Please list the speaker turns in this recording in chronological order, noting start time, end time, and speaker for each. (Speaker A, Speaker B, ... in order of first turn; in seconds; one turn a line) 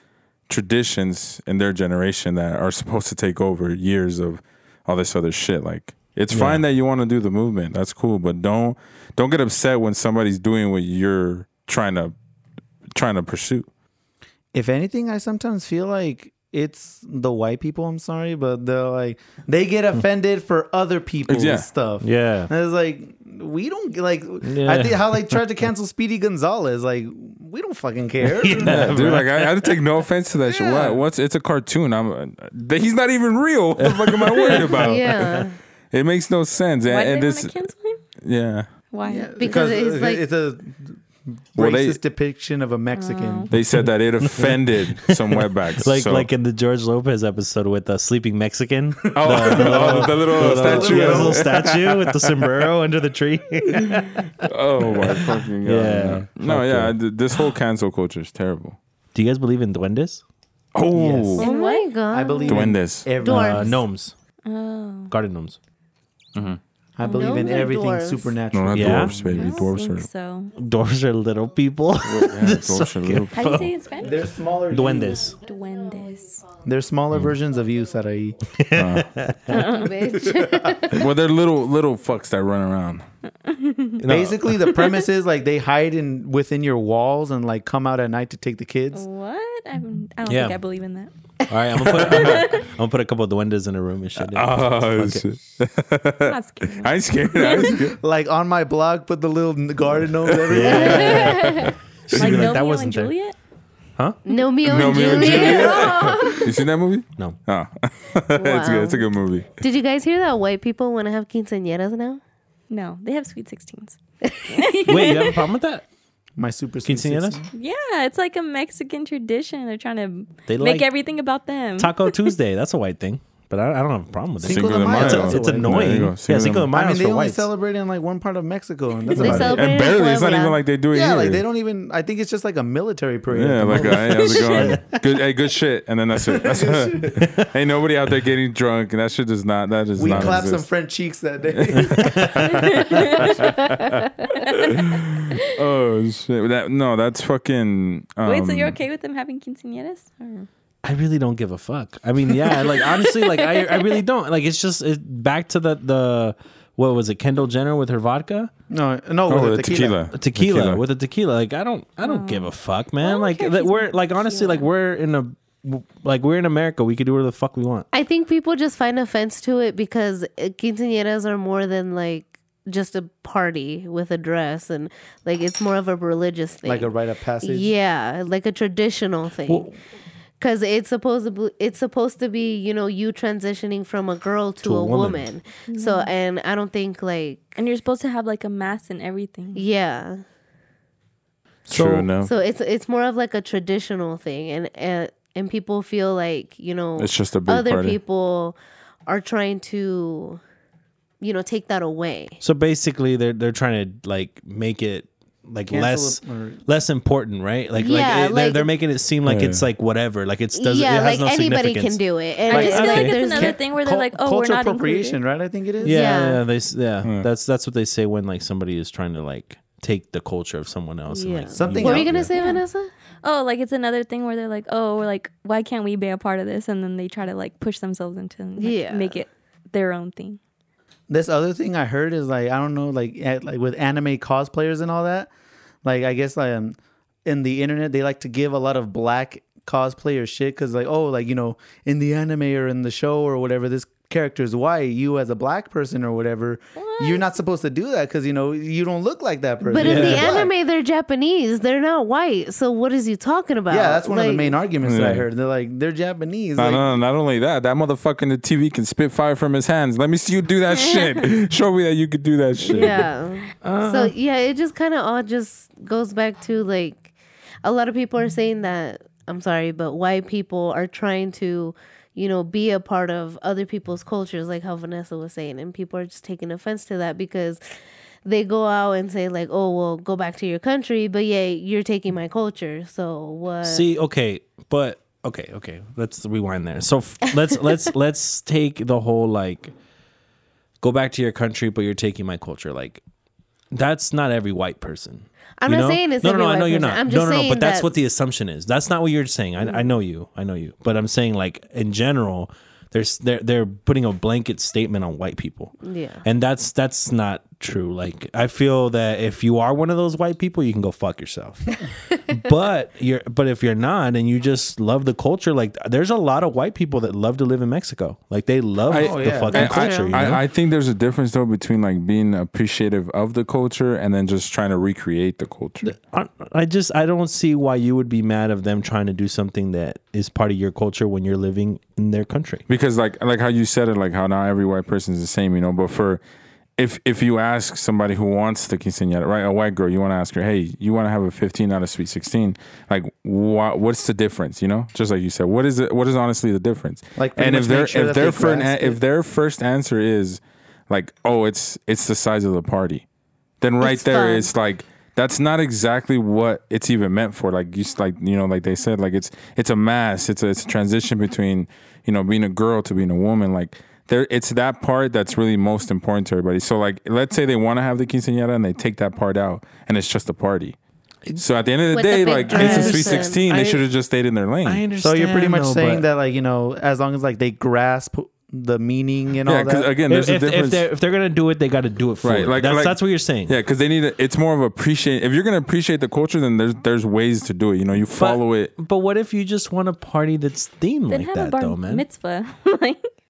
Speaker A: 0.5-12.1
Speaker B: 6.3-6.6
Speaker A: 12.9-13.7
Speaker C: 14.5-29.1
Speaker A: 21.3-21.7
Speaker B: 22.0-22.5
Speaker B: 24.4-25.4
Speaker B: 28.2-29.5
Speaker A: 28.6-35.4
Speaker C: 30.5-31.0
Speaker B: 33.8-35.5
Speaker D: 34.7-35.6
Speaker A: 35.9-37.6
Speaker E: 36.9-38.0
Speaker A: 38.2-38.7
Speaker E: 38.9-39.3
Speaker C: 39.0-41.0
Speaker D: 39.4-40.2
Speaker C: 41.5-43.5
Speaker A: 41.6-42.0
Speaker E: 42.9-43.5
Speaker A: 43.5-46.3
Speaker B: 44.2-54.3
Speaker A: 49.1-52.3
Speaker C: 49.4-51.5
Speaker A: 54.4-58.8
Speaker B: 54.8-57.0
Speaker B: 59.1-60.2
Speaker A: 60.7-61.4
Speaker B: 61.0-61.3
Speaker C: 61.0-61.4
Speaker E: 61.4-61.9
Speaker D: 61.4-63.7
Speaker C: 62.1-63.8
Speaker A: 62.5-63.2
Speaker B: 63.2-64.2
Speaker E: 64.5-65.1
Speaker B: 65.1-65.6
Speaker A: 66.3-66.6
Speaker C: 67.0-69.7
Speaker E: 67.0-67.7
Speaker D: 67.0-68.4
Speaker A: 68.5-70.1
Speaker B: 68.7-69.2
Speaker E: 69.3-70.5
Speaker B: 70.6-73.7
Speaker A: 72.0-73.4
Speaker E: 73.3-74.3
Speaker C: 74.0-75.4
Speaker B: 74.7-75.4
Speaker E: 75.3-76.5
Speaker C: 76.6-78.5
Speaker B: 78.5-79.5
Speaker A: 78.7-79.3
Speaker E: 79.5-80.0
Speaker D: 79.5-81.1
Speaker C: 80.1-80.9
Speaker A: 80.9-83.0
Speaker E: 83.5-84.0
Speaker B: 84.0-84.6
Speaker C: 84.0-89.1
Speaker E: 88.9-91.1
Speaker B: 90.3-90.6
Speaker B: 91.5-95.2
Speaker E: 91.7-92.7
Speaker A: 92.1-92.5
Speaker A: 94.2-98.0
Speaker E: 96.3-97.9
Speaker C: 97.6-101.6
Speaker B: 100.5-103.1
Speaker D: 100.7-101.7
Speaker A: 101.2-102.5
Speaker E: 102.2-103.4
Speaker D: 104.3-106.6
Speaker A: 104.6-109.5
Speaker E: 105.3-106.1
Speaker D: 108.3-109.1
Speaker D: 109.6-112.2
Speaker E: 112.7-115.4
Speaker B: 114.8-115.8
Speaker C: 116.4-117.5
Speaker B: 116.8-117.4
Speaker E: 117.5-122.3
Speaker B: 120.5-120.9
Speaker B: 121.8-127.5
Speaker A: 124.4-126.7
Speaker C: 124.4-125.9
Speaker C: 126.7-129.6
Speaker B: 129.2-129.6
Speaker D: 129.2-130.6
Speaker A: 129.2-131.4
Speaker C: 130.9-134.3
Speaker A: 133.3-140.7
Speaker B: 133.7-135.0
Speaker C: 136.3-137.2
Speaker B: 137.2-137.5
Speaker C: 140.0-143.5
Speaker B: 140.1-140.4
Speaker A: 141.5-143.7
Speaker B: 141.7-143.3
Speaker E: 142.7-143.3
Speaker E: 144.3-144.8
Speaker A: 144.5-148.8
Speaker E: 148.2-150.5
Speaker B: 150.8-158.5
Speaker E: 152.3-154.0
Speaker C: 158.7-160.0
Speaker A: 159.3-160.8
Speaker B: 160.1-167.9
Speaker E: 162.0-164.7
Speaker D: 167.9-176.9
Speaker C: 176.6-177.7
Speaker D: 177.4-179.7
Speaker B: 179.5-179.7
Speaker D: 180.4-187.5
Speaker B: 184.6-185.3
Speaker E: 185.7-186.1
Speaker E: 187.6-189.6
Speaker D: 189.6-190.2
Speaker B: 191.7-192.1
Speaker A: 191.7-192.3
Speaker D: 192.2-198.6
Speaker A: 197.0-198.0
Speaker D: 199.1-200.4
Speaker D: 201.2-202.4
Speaker B: 202.4-212.0
Speaker C: 205.7-206.6
Speaker D: 207.8-208.7
Speaker A: 209.3-209.7
Speaker D: 210.6-213.6
Speaker E: 212.5-215.2
Speaker C: 212.5-216.1
Speaker B: 212.5-213.1
Speaker B: 215.8-222.3
Speaker D: 215.9-216.4
Speaker D: 221.1-222.9
Speaker C: 221.6-222.2
Speaker E: 222.3-222.6
Speaker E: 223.2-230.4
Speaker D: 228.6-229.2
Speaker C: 231.1-235.3
Speaker C: 235.8-250.5
Speaker E: 246.8-247.2
Speaker D: 249.7-254.6
Speaker B: 249.8-250.4
Speaker C: 253.7-256.9
Speaker A: 254.8-255.3
Speaker A: 256.6-263.1
Speaker D: 262.6-267.1
Speaker B: 263.6-264.1
Speaker D: 267.6-277.6
Speaker D: 278.2-283.9
Speaker B: 283.6-289.7
Speaker B: 290.8-293.0
Speaker B: 293.7-320.4
Speaker D: 295.6-297.9
Speaker D: 305.8-306.2
Speaker A: 318.9-325.9
Speaker C: 319.0-319.6
Speaker D: 319.5-320.3
Speaker B: 325.8-332.6
Speaker A: 332.7-336.2
Speaker A: 336.8-353.1
Speaker C: 347.2-349.0
Speaker A: 353.6-370.8
Speaker D: 353.8-354.5
Speaker A: 371.4-374.9
Speaker D: 371.9-373.5
Speaker B: 372.5-373.8
Speaker B: 374.6-376.1
Speaker C: 375.0-379.9
Speaker A: 379.4-380.9
Speaker B: 380.1-383.6
Speaker A: 382.2-388.7
Speaker B: 388.1-392.0
Speaker E: 391.1-393.1